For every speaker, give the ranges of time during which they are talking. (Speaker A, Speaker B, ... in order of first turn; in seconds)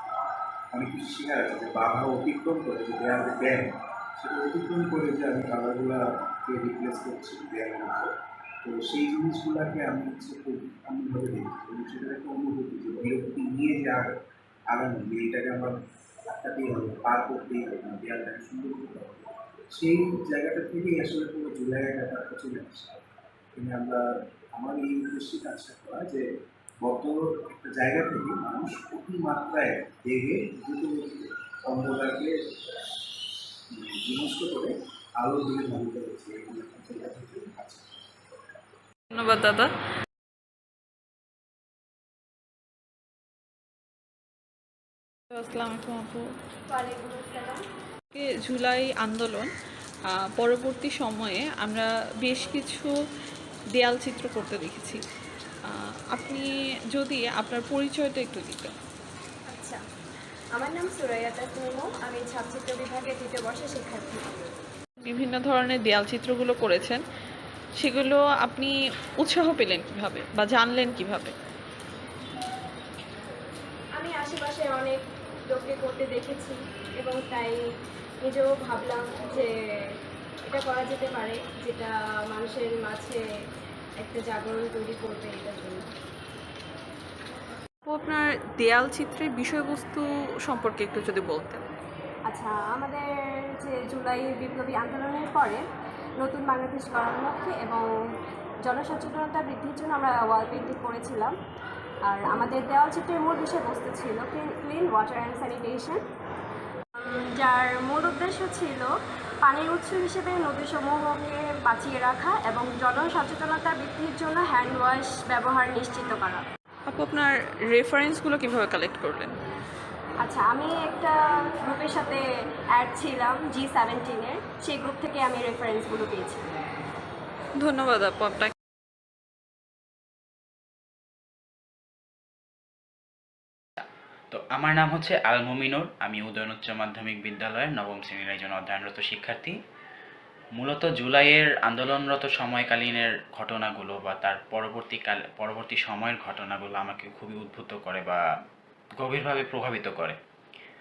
Speaker A: 0.7-8.1, 8.6-14.1, 14.7-15.7, 16.3-23.0, 23.6-24.0, 24.5-26.2, 26.8-32.3, 33.7-37.9
Speaker B: 39.1-39.7, 45.3-46.3, 48.1-49.5, 50.2-52.9, 53.8-55.0, 55.7-58.8, 65.0-67.0, 67.8-71.3, 117.7-119.3, 127.6-128.5
Speaker C: 46.7-47.6, 59.5-59.8, 60.5-64.5, 74.0-77.6, 78.2-83.2, 84.0-85.9, 92.3-95.6, 96.2-97.8, 98.6-101.3, 102.1-106.0, 107.0-116.5, 120.2-126.5
Speaker D: 133.8-139.6, 140.6-148.2, 149.0-150.2